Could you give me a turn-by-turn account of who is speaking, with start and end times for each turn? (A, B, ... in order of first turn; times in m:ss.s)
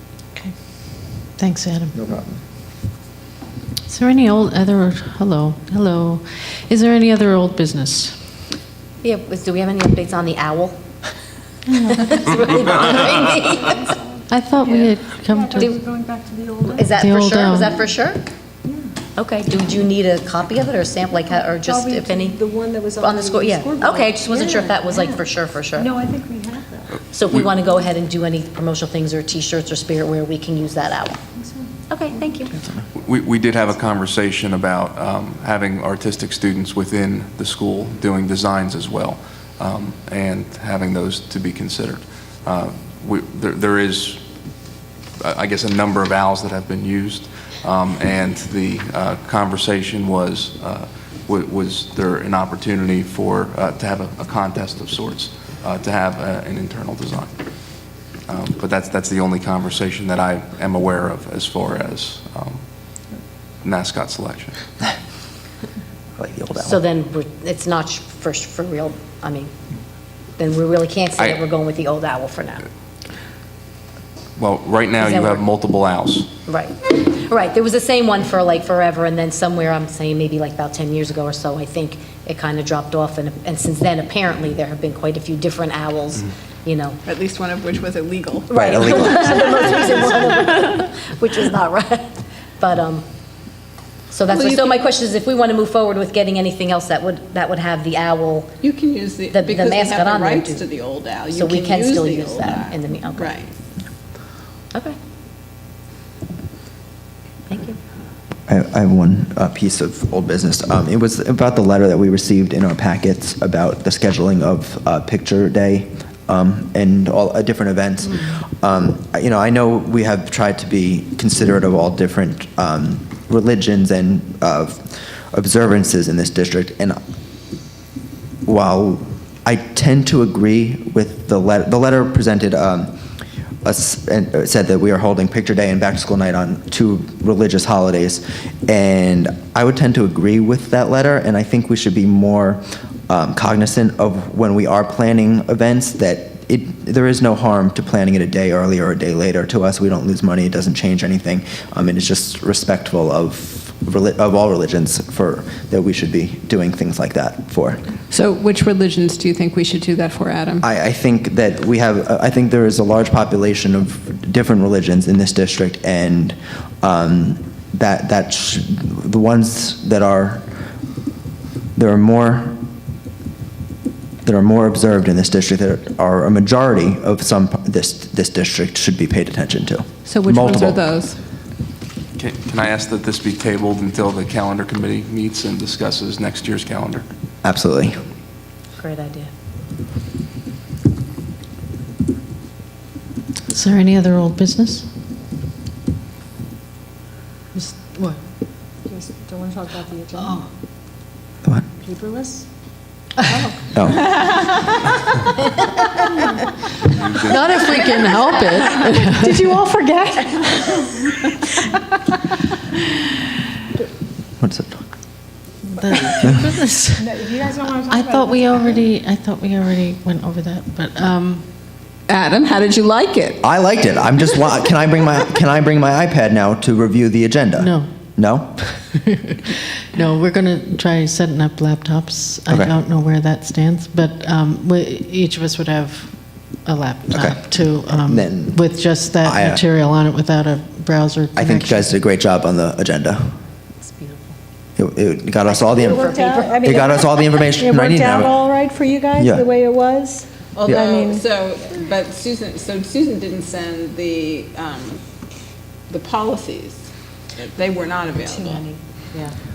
0:01.4-0:02.0 A
0:02.0-0:02.3 B
0:03.9-0:08.1 A
0:09.0-0:10.8 C
0:11.8-0:14.0 C
0:14.3-0:15.8 A
0:15.3-0:17.0 D
0:16.7-0:18.2 C
0:17.0-0:17.8 A
0:19.2-0:22.4 C
0:21.3-0:27.0 D
0:23.0-0:25.9 C
0:27.0-0:31.2 C
0:31.4-0:32.2 D
0:31.9-0:32.5 C
0:32.9-0:44.2 E
0:45.2-0:57.3 E
0:58.3-1:03.0 E
1:03.6-1:04.6 E
1:06.2-1:06.8 B
1:06.6-1:09.5 C
1:10.4-1:12.7 C
1:14.4-1:16.3 E
1:15.0-1:15.4 C
1:16.5-1:27.0 C
1:27.1-1:28.4 F
1:28.5-1:33.0 C
1:28.5-1:29.6 B
1:34.1-1:38.6 C
1:34.3-1:34.7 F
1:38.6-1:43.4 F
1:39.3-1:40.6 C
1:41.3-1:43.4 C
1:47.5-1:47.8 C
1:48.5-2:07.0 B
2:08.4-2:12.9 B
2:13.6-2:37.8 B
2:38.1-2:40.6 G
2:40.6-2:50.5 B
2:51.7-2:52.6 B
2:54.2-3:00.8 B
3:02.2-3:07.0 E
3:07.4-3:08.0 B
3:08.8-3:09.3 C
3:13.5-3:14.9 A
3:17.5-3:18.2 A
3:18.9-3:20.4 D
3:21.8-3:22.4 D
3:23.3-3:23.6 D
3:23.7-3:24.1 B
3:26.9-3:27.8 E
3:27.2-3:29.5 A
3:29.2-3:31.2 D
3:34.4-3:34.8 B
3:35.7-3:37.1 A
3:37.0-3:38.8 D
3:37.9-3:41.4 A
3:43.4-3:48.6 B
3:47.6-3:47.9 A
3:48.9-4:01.9 A
3:52.5-3:52.7 B
3:57.1-3:58.7 B
3:59.2-3:59.6 B
4:01.4-4:03.3 B
4:03.8-4:04.3 C
4:04.8-4:08.4 B
4:05.5-4:06.6 C
4:05.7-4:11.3 D
4:09.2-4:09.4 B
4:10.6-4:15.0 F
4:15.9-4:16.8 F
4:17.4-4:18.6 F
4:18.3-4:18.6 D